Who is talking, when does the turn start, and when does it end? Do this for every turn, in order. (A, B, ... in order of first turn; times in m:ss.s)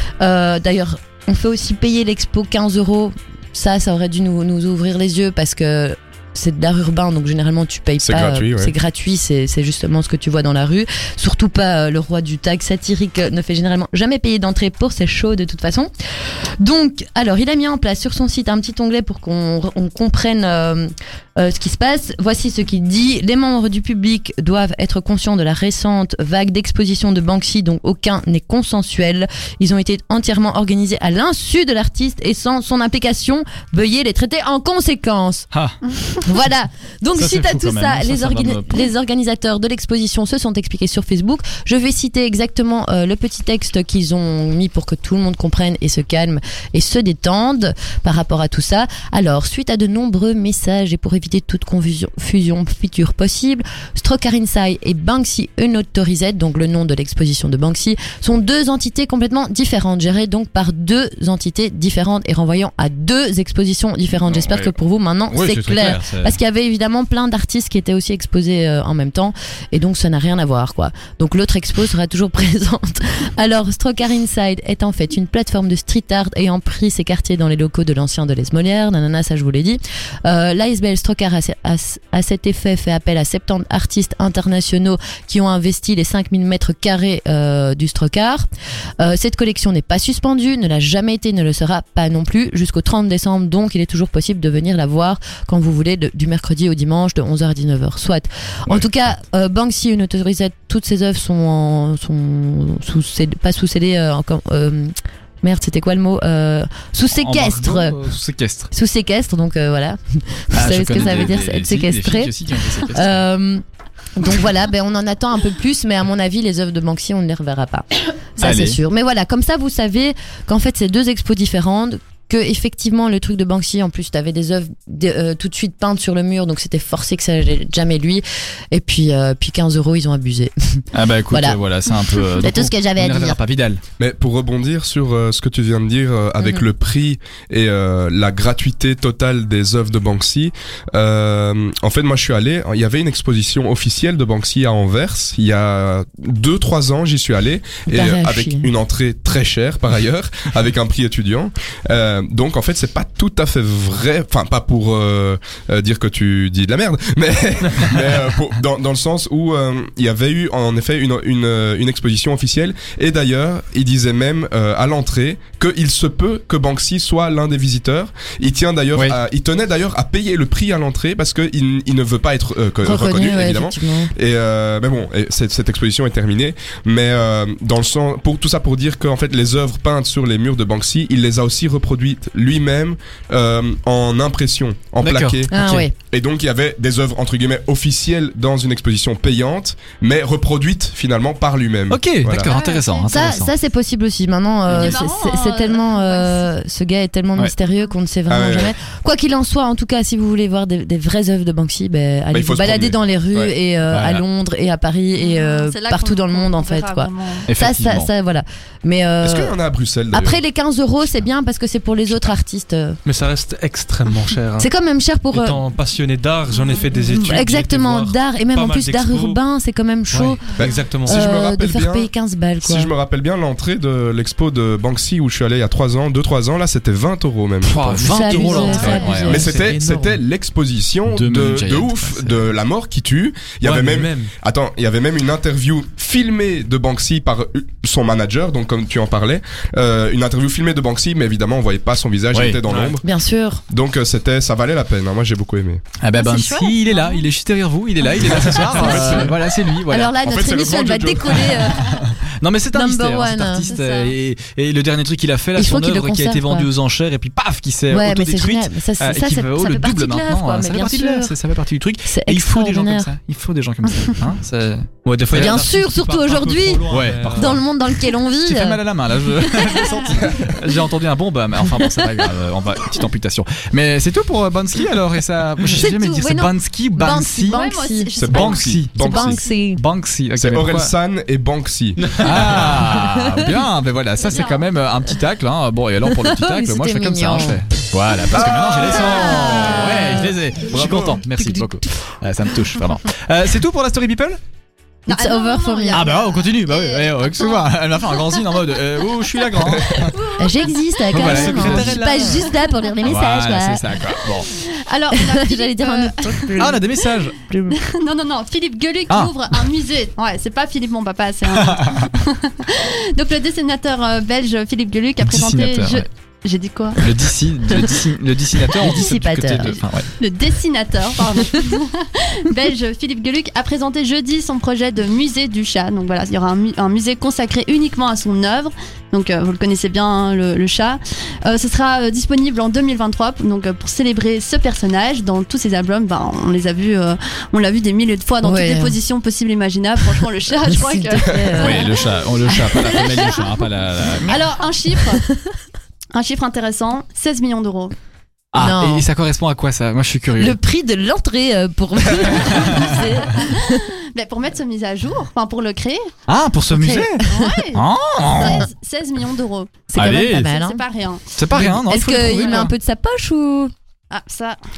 0:00.2-0:15.9 A
0:08.0-0:08.7 B
0:16.6-0:35.5 A
0:35.5-0:35.8 C
0:36.2-1:28.5 A
0:37.1-0:38.9 C
1:04.3-1:04.8 C
1:05.3-1:06.4 C
1:29.0-1:48.0 A
1:47.1-1:48.7 C
1:48.7-1:53.6 A
1:50.5-1:53.2 C
1:54.2-2:13.4 A
1:58.4-1:58.8 C
2:10.9-2:13.8 C
2:14.0-3:12.5 B
2:27.9-2:28.7 A
2:52.8-2:54.1 A
3:05.0-3:05.9 C
3:05.5-3:05.9 A
3:11.9-3:13.5 C
3:12.3-3:13.1 D
3:13.1-3:29.5 A
3:14.7-3:16.5 D
3:18.3-3:18.8 B
3:22.3-3:23.5 B
3:23.9-3:24.2 C
3:25.1-3:27.5 D
3:27.5-3:28.1 C
3:29.2-3:30.4 B
3:30.1-3:33.0 A
3:33.0-3:34.7 E
3:34.6-3:35.6 A
3:35.3-3:39.4 E
3:37.0-3:40.5 A
3:40.1-3:41.2 E
3:40.6-3:42.1 B
3:41.0-3:42.9 A
3:42.6-3:48.0 B
3:47.6-3:50.2 E
3:47.7-3:49.5 C
3:48.0-3:49.6 A
3:48.4-3:49.2 D
3:49.3-4:03.1 B
3:51.1-3:52.4 C
3:53.6-3:54.3 E
4:02.3-4:02.6 C
4:02.7-4:02.9 E
4:03.0-4:03.6 A
4:03.7-4:05.8 B
4:06.0-4:10.1 C
4:06.2-4:07.2 D
4:08.4-4:09.4 B
4:08.8-4:12.1 A
4:10.2-4:11.7 B
4:11.9-4:25.6 C
4:12.7-4:13.7 A
4:13.7-4:14.1 D
4:15.6-4:16.7 A
4:17.9-4:21.3 A
4:22.1-4:23.1 A
4:25.2-4:27.6 E
4:25.3-4:28.8 A
4:26.9-4:27.6 C
4:28.4-4:37.6 C
4:35.6-4:39.8 A
4:37.5-4:39.4 D
4:38.2-4:39.4 B
4:38.3-4:39.2 C
4:39.7-4:40.9 C
4:40.4-4:42.6 B
4:42.2-4:54.4 C
4:42.9-4:43.4 A
4:44.3-4:44.6 D
4:46.1-4:47.6 A
4:48.3-4:49.8 B
4:48.9-4:50.3 A
4:50.6-4:51.2 B
4:51.3-4:51.8 A
4:55.1-4:56.1 A
4:55.1-4:58.4 D
4:55.9-5:00.2 C
4:59.9-5:01.5 D
5:00.4-5:04.0 A
5:01.1-5:02.4 C
5:01.2-5:02.4 E
5:02.2-5:02.7 D
5:03.0-5:04.5 C
5:04.5-5:06.6 D
5:05.2-5:06.8 A
5:06.5-5:07.4 C
5:07.5-5:07.8 A
5:07.7-5:17.0 D
5:11.6-5:12.1 C
5:15.2-5:16.1 C
5:17.0-5:20.1 C
5:18.7-5:19.7 A
5:20.2-5:41.9 D
5:38.4-5:38.9 A
5:40.7-5:41.9 A
5:41.6-5:44.4 C
5:42.6-5:43.1 A
5:42.8-5:43.5 D
5:44.3-5:45.2 D
5:46.1-5:47.9 D
5:48.5-5:50.6 C
5:48.6-5:49.1 A
5:50.4-5:53.8 A
5:52.4-5:52.9 C
5:53.3-5:56.1 D
5:56.3-5:58.6 C
5:56.7-5:57.6 A
5:57.2-6:01.3 D
5:58.4-5:58.6 A
5:59.9-6:00.8 A
5:59.9-6:00.5 C
6:01.4-6:02.7 C
6:01.5-6:03.7 A
6:02.0-6:02.7 D
6:04.1-6:04.6 D